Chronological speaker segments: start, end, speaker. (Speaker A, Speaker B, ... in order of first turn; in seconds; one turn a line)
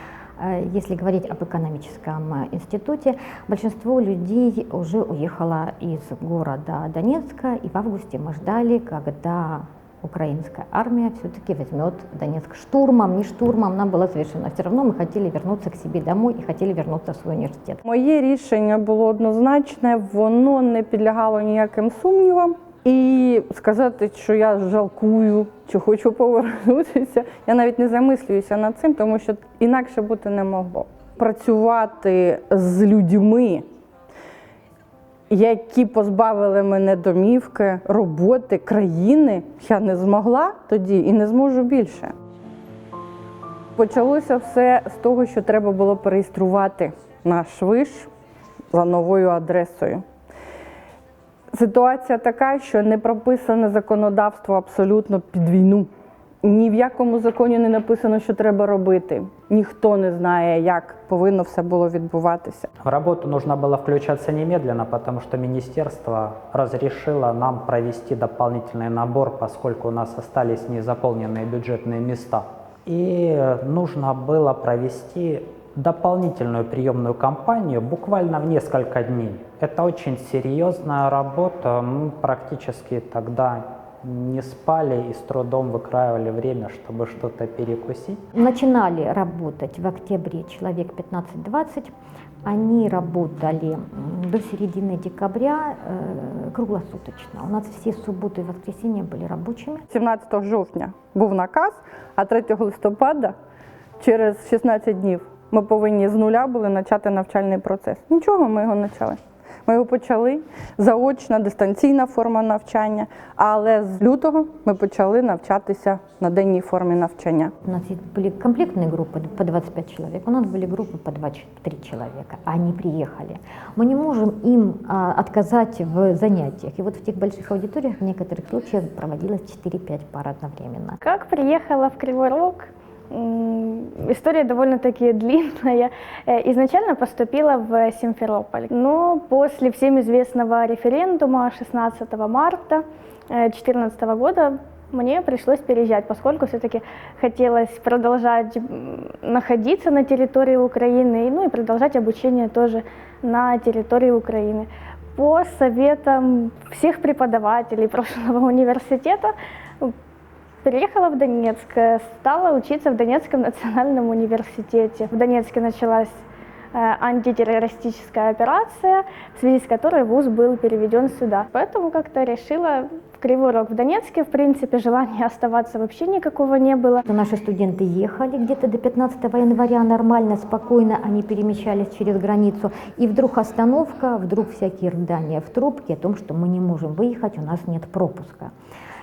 Speaker A: 0.4-17.8
Speaker B: 17.9-33.7
Speaker B: 35.3-42.1
Speaker B: 43.8-48.1
Speaker B: 48.7-50.0
Speaker B: 51.5-55.9
Speaker B: 56.4-62.7
Speaker C: 62.8-88.2
Speaker A: 88.3-91.9
Speaker A: 92.5-99.8
Speaker B: 99.9-103.3
Speaker B: 104.0-117.5
Speaker A: 117.7-131.0
Speaker D: 131.0-159.9
Speaker D: 160.6-166.2
Speaker D: 166.7-177.0
Speaker A: 177.1-188.5